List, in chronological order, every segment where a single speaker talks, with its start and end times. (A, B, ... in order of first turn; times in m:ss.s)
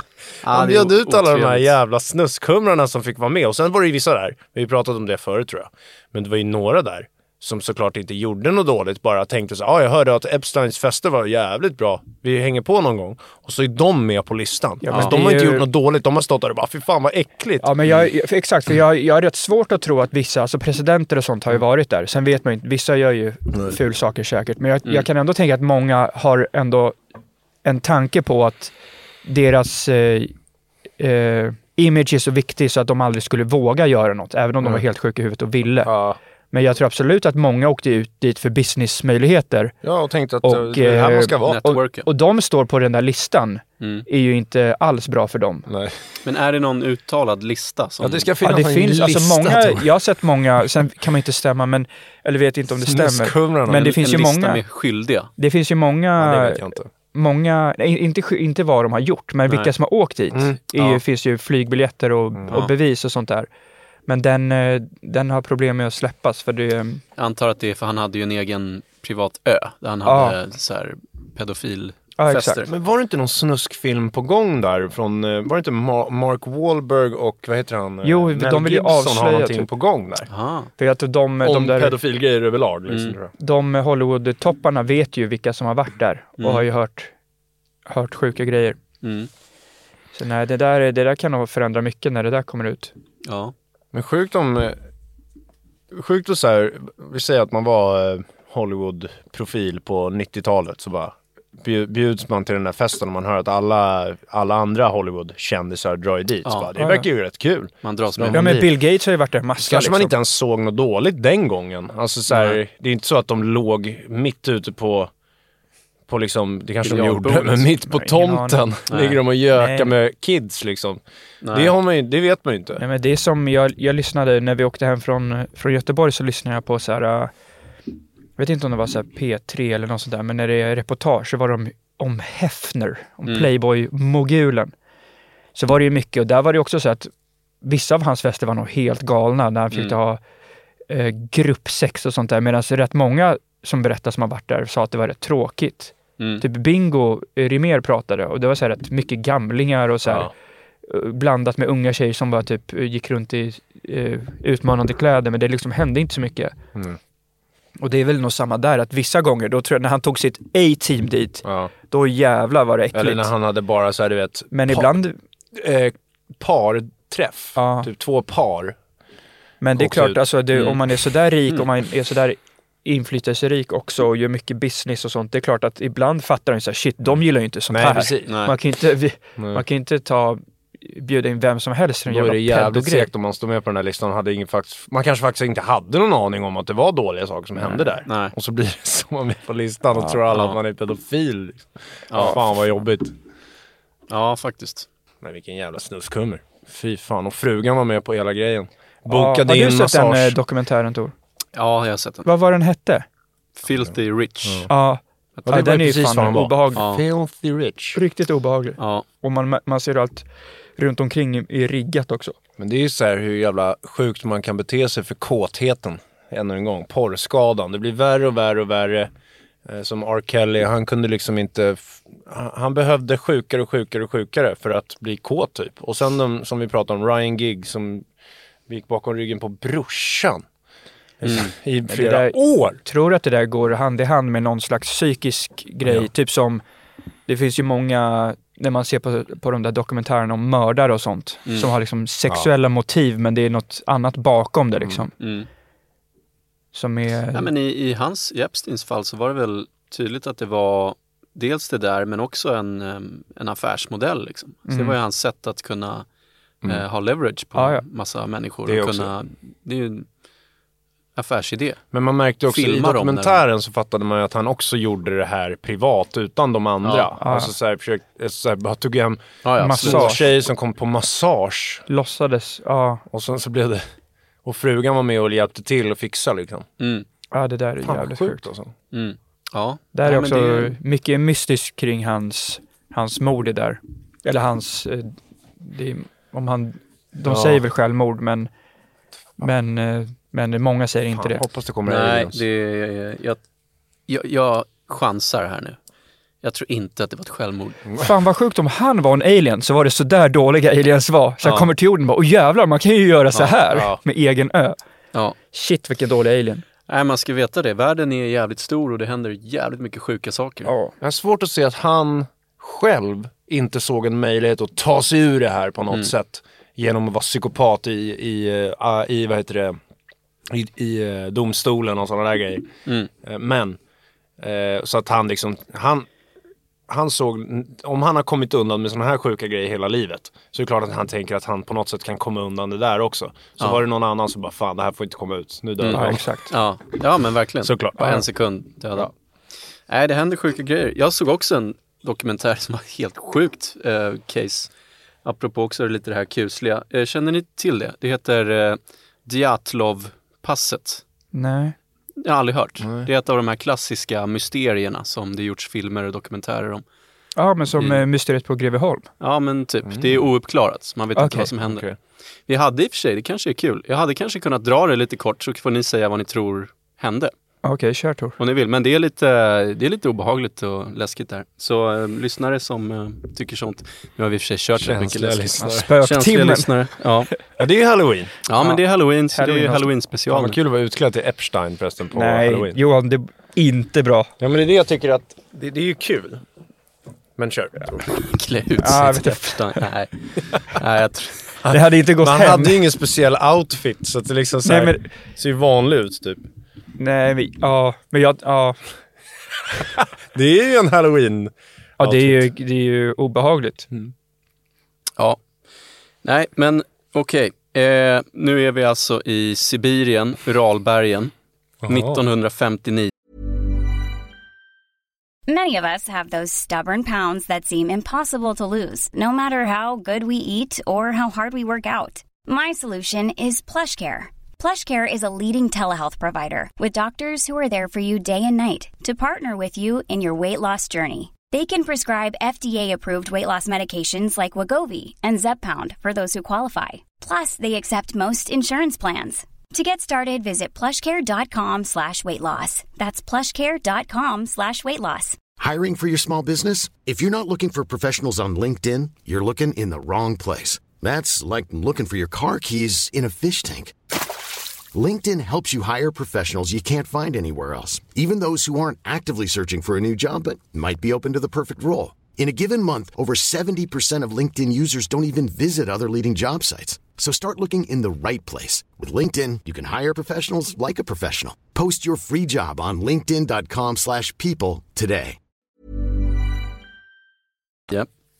0:00.4-0:01.7 A
0:00.5-0:17.7 B
0:14.8-0:15.7 C
0:17.6-0:27.0 C
0:27.6-0:30.3 C
0:31.0-0:35.9 C
0:35.8-0:36.2 B
0:36.5-0:39.8 C
0:39.8-0:41.7 B
0:40.4-0:45.7 C
0:41.4-0:42.1 A
0:43.8-0:44.1 A
0:45.7-0:46.0 B
0:46.2-0:48.3 A
0:48.0-0:49.9 B
0:48.4-0:54.6 C
0:52.8-0:53.9 B
0:53.7-0:55.3 A
0:55.4-0:56.6 C
0:56.2-0:56.9 B
0:57.1-1:03.5 C
1:00.3-1:00.9 B
1:04.1-1:07.0 C
1:07.2-1:12.7 A
1:10.1-1:10.4 C
1:12.2-1:12.6 C
1:12.7-1:20.3 B
1:18.0-1:19.7 C
1:20.3-1:20.7 A
1:20.8-1:22.0 C
1:21.4-1:23.3 B
1:22.9-1:23.2 A
1:23.4-1:27.1 C
1:26.4-1:26.7 A
1:27.9-1:28.8 C
1:29.0-1:29.3 A
1:30.2-1:32.9 C
1:33.2-1:33.5 A
1:33.9-1:34.8 B
1:35.9-1:48.7 B
1:46.4-1:46.7 A
1:46.8-1:47.1 C
1:47.8-1:48.6 A
1:48.3-1:50.1 C
1:49.6-1:55.1 B
1:52.3-1:52.6 A
1:56.1-2:01.0 B
1:56.8-1:57.7 A
1:57.8-1:58.6 C
1:58.9-1:59.2 A
1:59.6-1:59.9 C
2:01.4-2:01.8 A
2:01.5-2:02.8 B
2:02.8-2:07.3 C
2:08.4-2:14.7 C
2:15.6-2:20.2 C
2:20.9-2:30.3 C
2:30.1-2:30.3 B
2:30.9-2:36.6 C
2:37.8-2:43.3 C
2:41.4-2:41.7 B
2:42.9-2:45.0 B
2:44.5-2:45.2 C
2:45.5-2:48.8 B
2:47.6-2:47.9 C
2:49.6-3:03.1 C
2:49.7-2:50.3 B
2:57.7-2:58.5 B
2:58.3-2:58.5 A
2:59.4-2:59.6 B
3:02.1-3:13.2 B
3:07.6-3:08.3 A
3:10.3-3:10.6 A
3:12.1-3:12.4 A
3:14.1-3:14.9 A
3:15.2-3:20.4 B
3:19.1-3:21.1 C
3:21.5-3:22.3 A
3:22.2-3:23.1 C
3:23.6-3:24.7 A
3:24.4-3:24.7 B
3:24.7-3:26.8 C
3:25.5-3:28.0 B
3:26.8-3:27.0 A
3:28.0-3:32.4 C
3:28.8-3:29.0 A
3:32.6-3:39.1 B
3:39.7-3:48.1 B
3:48.7-3:50.4 B
3:51.2-3:52.8 B
3:51.2-3:51.5 A
3:51.8-3:56.6 C
3:57.3-4:05.1 C
4:05.2-4:05.5 A
4:06.7-4:07.5 C
4:07.3-4:16.1 A
4:14.7-4:15.0 C
4:16.6-4:20.1 A
4:17.6-4:17.8 C
4:18.7-4:19.1 B
4:21.2-4:21.8 A
4:21.9-4:31.9 B
4:22.5-4:23.4 A
4:26.8-4:27.1 A
4:27.2-4:27.5 C
4:29.4-4:30.2 A
4:29.6-4:30.2 C
4:31.9-4:33.0 C
4:33.1-4:33.9 B
4:34.4-4:36.7 B
4:36.8-4:37.1 A
4:37.3-4:38.4 C
4:37.8-4:38.7 B
4:38.9-4:40.8 A
4:40.0-4:48.5 C
4:47.3-4:47.6 A
4:49.4-4:51.4 C
4:51.2-4:52.4 B
4:51.9-4:53.4 A
4:54.1-4:55.8 A
4:56.4-4:57.8 A
4:57.9-4:58.1 B
4:58.0-5:04.8 C
5:01.4-5:01.7 A
5:03.7-5:04.0 B
5:05.5-5:06.6 C
5:06.9-5:10.7 A
5:10.7-5:10.9 C
5:11.0-5:19.8 B
5:20.5-5:22.7 B
5:23.2-5:23.8 B
5:24.4-5:26.1 B
5:26.9-5:36.3 B
5:35.8-5:39.1 A
5:35.9-5:36.5 C
5:37.6-5:38.2 B
5:39.9-5:44.7 A
5:45.2-5:51.0 A
5:51.3-5:51.8 C
5:52.2-5:56.8 A
5:52.8-5:53.1 B
5:57.4-5:59.1 C
5:57.8-5:58.0 A
5:59.2-6:01.8 A
5:59.8-6:00.2 B
6:01.2-6:01.5 C
6:01.6-6:02.0 B
6:02.5-6:07.3 A
6:07.6-6:08.4 C
6:08.4-6:17.3 A
6:14.8-6:15.9 B
6:15.6-6:16.7 C
6:17.6-6:18.4 B
6:18.5-6:20.6 A
6:18.6-6:19.9 C
6:20.3-6:22.8 B
6:22.1-6:24.3 C
6:24.4-6:26.4 B
6:27.4-6:28.1 B
6:28.1-6:31.6 A
6:28.8-6:29.8 C
6:31.6-6:36.5 B
6:31.7-6:32.8 C
6:34.6-6:35.0 C
6:37.0-6:38.8 C
6:39.8-6:42.5 B
6:42.0-6:43.9 C
6:45.2-6:45.4 A
6:46.2-6:51.3 A
6:51.8-6:52.2 B
6:51.9-6:53.1 A
6:55.5-7:25.4 D
7:25.6-7:34.2 E
7:34.9-7:55.4 E